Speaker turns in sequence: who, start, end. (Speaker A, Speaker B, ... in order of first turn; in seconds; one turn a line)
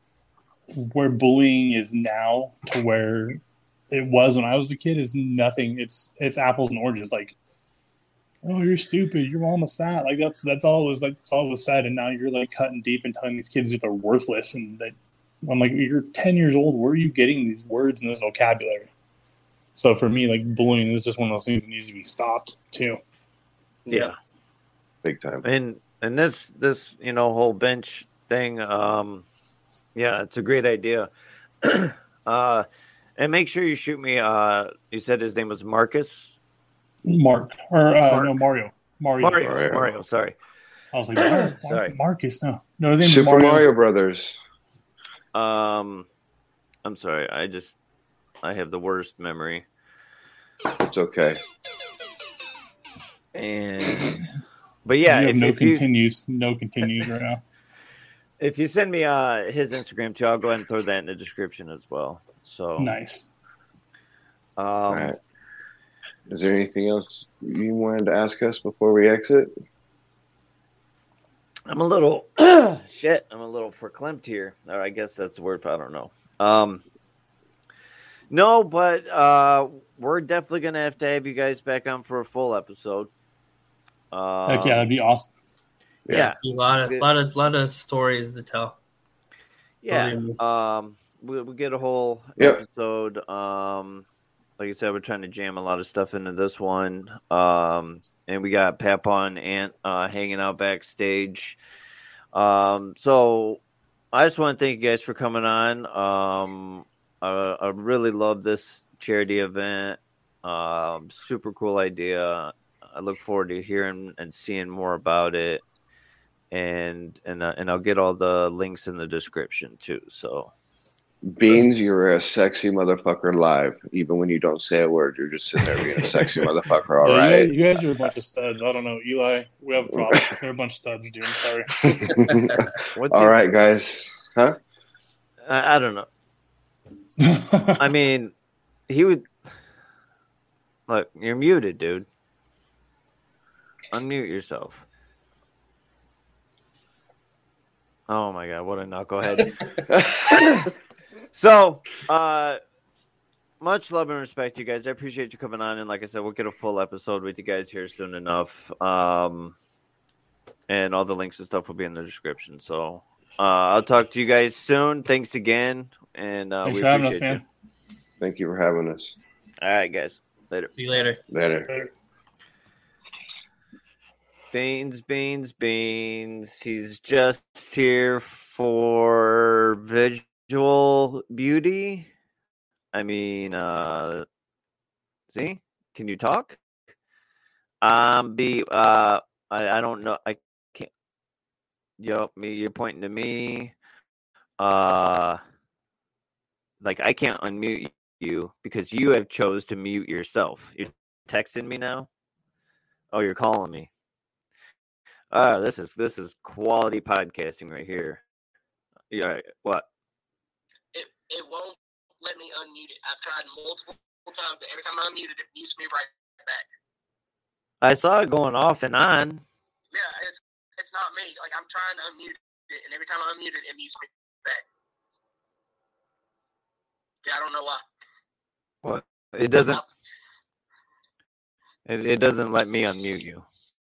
Speaker A: 0.7-7.3
Speaker A: 8.4-18.9
Speaker A: 19.7-23.0
Speaker B: 23.9-24.1
Speaker C: 25.0-25.4
Speaker B: 25.4-29.2
Speaker B: 29.9-31.1
Speaker B: 31.6-32.6
Speaker B: 33.2-36.4
Speaker A: 37.0-39.5
Speaker B: 38.1-38.3
Speaker B: 39.2-40.4
Speaker C: 39.4-39.9
Speaker A: 40.9-43.6
Speaker B: 41.1-42.0
Speaker C: 43.0-44.4
Speaker B: 45.3-46.1
Speaker B: 46.9-47.8
Speaker B: 48.4-49.6
Speaker C: 50.9-51.4
Speaker B: 53.4-54.2
Speaker B: 54.9-55.9
Speaker A: 55.1-57.4
Speaker B: 58.4-62.9
Speaker A: 62.8-63.3
Speaker B: 64.6-65.1
Speaker C: 64.9-65.2
Speaker C: 66.3-69.5
Speaker B: 71.7-76.8
Speaker B: 78.3-83.1
Speaker B: 84.1-84.9
Speaker A: 84.5-85.3
Speaker C: 86.1-86.3
Speaker B: 86.1-87.1
Speaker D: 86.4-88.8
Speaker B: 89.8-94.0
Speaker D: 89.9-90.4
Speaker B: 94.6-101.6
Speaker B: 102.3-103.6
Speaker B: 104.1-115.6
Speaker B: 116.5-120.5
Speaker C: 121.3-127.5
Speaker A: 127.0-132.4
Speaker C: 129.9-130.3
Speaker C: 131.8-134.6
Speaker B: 132.9-133.4
Speaker B: 135.4-136.1
Speaker A: 137.2-137.8
Speaker B: 137.8-138.3
Speaker B: 138.9-139.3
Speaker B: 140.9-142.1
Speaker B: 143.9-144.8
Speaker B: 148.1-149.6
Speaker C: 149.9-150.7
Speaker B: 150.3-150.6
Speaker B: 151.3-152.6
Speaker B: 153.6-159.5
Speaker B: 160.7-167.4
Speaker A: 166.6-167.4
Speaker C: 168.2-169.1
Speaker B: 169.6-171.1
Speaker D: 170.8-171.2
Speaker C: 171.3-171.7
Speaker B: 174.5-182.1
Speaker B: 182.9-184.2
Speaker B: 185.3-186.6
Speaker B: 187.8-190.9
Speaker B: 192.0-193.7
Speaker B: 194.6-195.4
Speaker B: 196.8-202.1
Speaker B: 203.1-203.9
Speaker B: 205.3-208.2
Speaker B: 209.1-209.9
Speaker E: 210.9-216.7
Speaker B: 217.8-219.4
Speaker E: 219.9-224.6
Speaker E: 227.2-227.8
Speaker B: 228.8-229.8
Speaker B: 231.9-233.4